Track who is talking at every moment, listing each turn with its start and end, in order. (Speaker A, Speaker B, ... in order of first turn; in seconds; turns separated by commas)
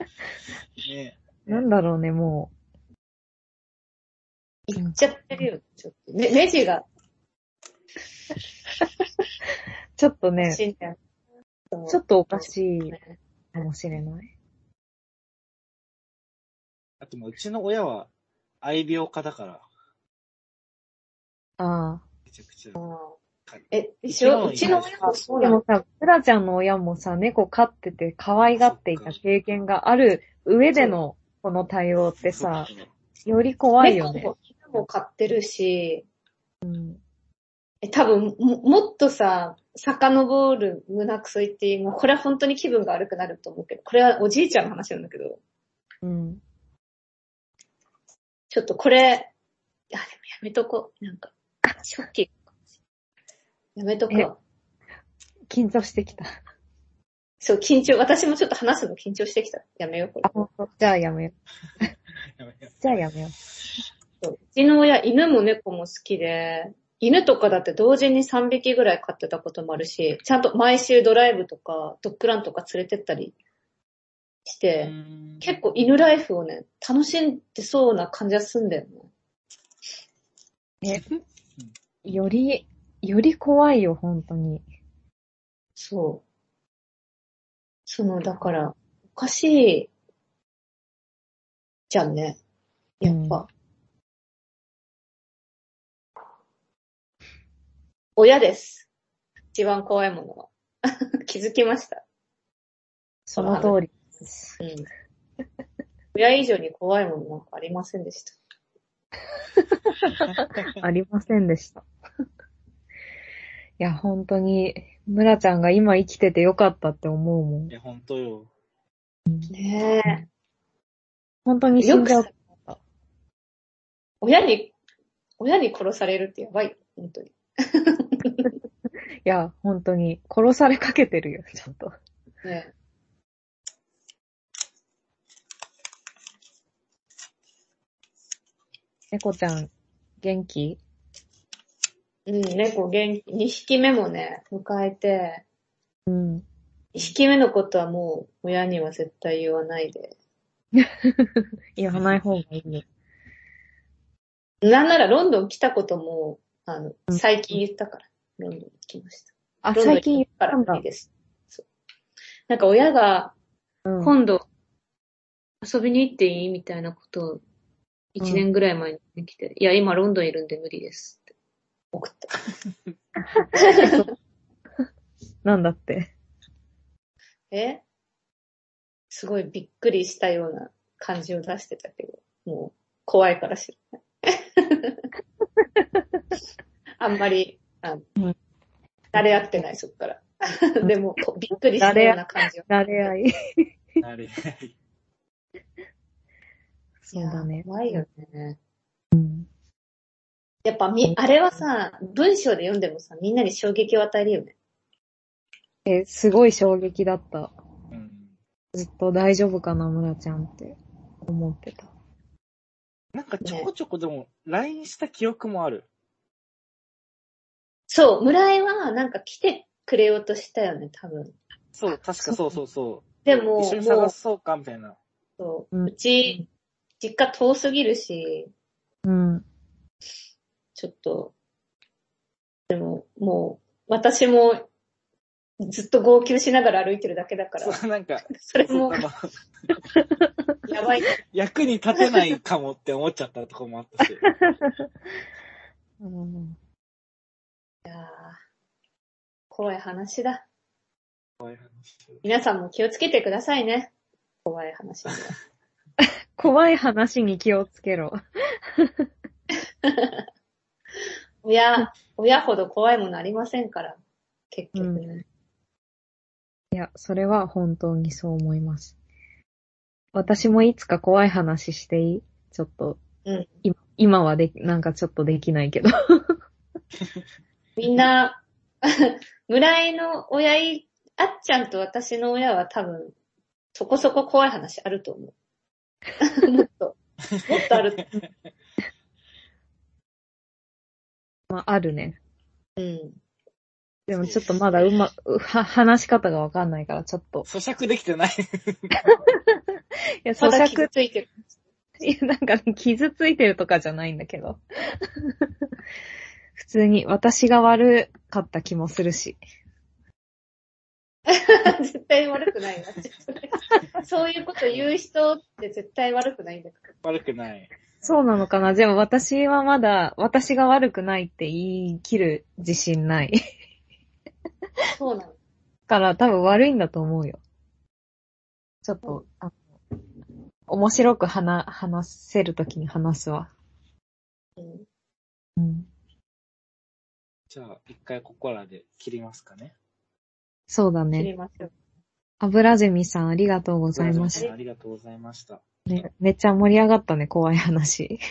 Speaker A: 0.8-1.2, Speaker B: 1.5-2.5, Speaker C: 4.7-6.8, Speaker B: 4.8-5.4, Speaker B: 10.0-10.6, Speaker C: 10.4-11.0, Speaker C: 11.7-13.0, Speaker B: 11.9-12.9, Speaker B: 13.5-14.3, Speaker A: 17.0-18.1, Speaker A: 18.6-19.6, Speaker B: 21.6-22.0, Speaker A: 22.3-22.8, Speaker C: 22.8-23.1, Speaker A: 23.5-24.9, Speaker C: 23.7-25.6, Speaker B: 25.4-32.7, Speaker A: 28.6-29.1, Speaker A: 32.2-32.9, Speaker B: 33.2-34.3, Speaker C: 33.8-36.0, Speaker B: 36.6-37.0, Speaker C: 37.8-45.4, Speaker B: 46.0-46.4, Speaker C: 48.5-49.3, Speaker C: 49.9-52.4, Speaker C: 53.8-54.4, Speaker B: 55.5-56.3, Speaker C: 57.4-60.3, Speaker B: 60.2-61.9, Speaker A: 62.4-63.0, Speaker B: 62.8-63.4, Speaker C: 64.2-73.3, Speaker C: 74.5-79.1, Speaker A: 74.8-75.5, Speaker A: 80.9-81.7, Speaker B: 82.0-84.6, Speaker C: 85.8-86.2, Speaker C: 87.9-89.9, Speaker C: 91.9-92.4, Speaker C: 93.0-93.4, Speaker B: 93.0-93.5, Speaker C: 98.2-98.9, Speaker C: 99.5-102.0, Speaker B: 103.3-104.6, Speaker C: 103.4-103.8, Speaker C: 104.6-104.9, Speaker C: 106.1-108.4, Speaker A: 110.3-110.6, Speaker B: 110.8-111.8, Speaker B: 113.8-117.7, Speaker A: 117.7-118.5, Speaker C: 119.5-120.2, Speaker B: 121.5-122.8, Speaker C: 121.8-122.3, Speaker C: 124.2-124.7, Speaker C: 125.4-128.5, Speaker B: 129.2-131.9, Speaker C: 132.4-132.7, Speaker B: 139.1-139.7, Speaker B: 140.2-140.8, Speaker C: 142.3-145.4, Speaker B: 146.1-146.4, Speaker C: 146.9-150.1, Speaker B: 150.8-152.8, Speaker C: 154.6-161.6, Speaker B: 159.6-160.8, Speaker C: 162.5-163.3, Speaker B: 163.8-164.1, Speaker C: 164.0-164.4, Speaker C: 165.6-167.4, Speaker C: 168.1-171.3, Speaker C: 171.9-172.3, Speaker B: 173.2-174.1, Speaker C: 173.6-174.0, Speaker B: 175.4-176.1, Speaker C: 177.5-177.8, Speaker C: 179.1-185.0, Speaker B: 185.6-186.0, Speaker C: 187.0-188.1, Speaker C: 189.1-192.7, Speaker B: 191.8-193.6, Speaker A: 194.0-194.7, Speaker B: 197.0-198.0, Speaker C: 197.1-198.6, Speaker B: 199.1-199.5, Speaker C: 200.6-204.5, Speaker B: 205.8-207.5, Speaker A: 207.9-208.3, Speaker B: 208.7-211.9, Speaker A: 213.1-215.9, Speaker C: 217.9-221.3, Speaker A: 221.7-225.0, Speaker C: 223.2-224.1, Speaker C: 225.4-226.4, Speaker B: 225.7-226.3, Speaker C: 227.0-228.5, Speaker B: 229.1-229.4, Speaker C: 230.8-231.3, Speaker C: 232.7-234.6, Speaker C: 235.6-237.8, Speaker A: 237.6-239.3, Speaker C: 238.4-239.1, Speaker C: 240.7-241.2, Speaker A: 241.3-244.2, Speaker B: 244.2-244.8, Speaker B: 246.0-246.6, Speaker C: 247.8-248.4, Speaker C: 249.5-250.4, Speaker A: 251.4-252.2, Speaker C: 252.2-253.9, Speaker C: 254.4-255.4, Speaker B: 256.3-258.2, Speaker B: 258.8-259.1, Speaker C: 259.8-260.2, Speaker C: 261.4-264.0, Speaker C: 264.5-265.2, Speaker B: 264.7-265.0, Speaker B: 266.7-268.9, Speaker B: 270.1-273.0, Speaker B: 273.6-276.3, Speaker C: 277.8-283.1, Speaker C: 283.7-285.3, Speaker C: 286.2-288.0, Speaker A: 287.3-287.7, Speaker B: 291.5-292.2, Speaker C: 292.8-293.2, Speaker B: 294.1-297.5, Speaker A: 297.4-298.9, Speaker B: 300.2-300.9, Speaker C: 300.4-301.4, Speaker B: 302.0-304.6, Speaker B: 306.6-309.4, Speaker C: 311.3-316.9, Speaker A: 317.0-318.2, Speaker B: 318.0-323.4, Speaker C: 324.9-325.3, Speaker B: 325.9-327.4, Speaker B: 328.8-329.6, Speaker B: 330.7-333.5, Speaker C: 334.6-334.9, Speaker B: 335.6-335.9, Speaker A: 337.5-339.7, Speaker B: 340.7-341.3, Speaker C: 341.1-341.7, Speaker B: 342.4-344.4, Speaker A: 343.9-345.6, Speaker B: 345.9-348.2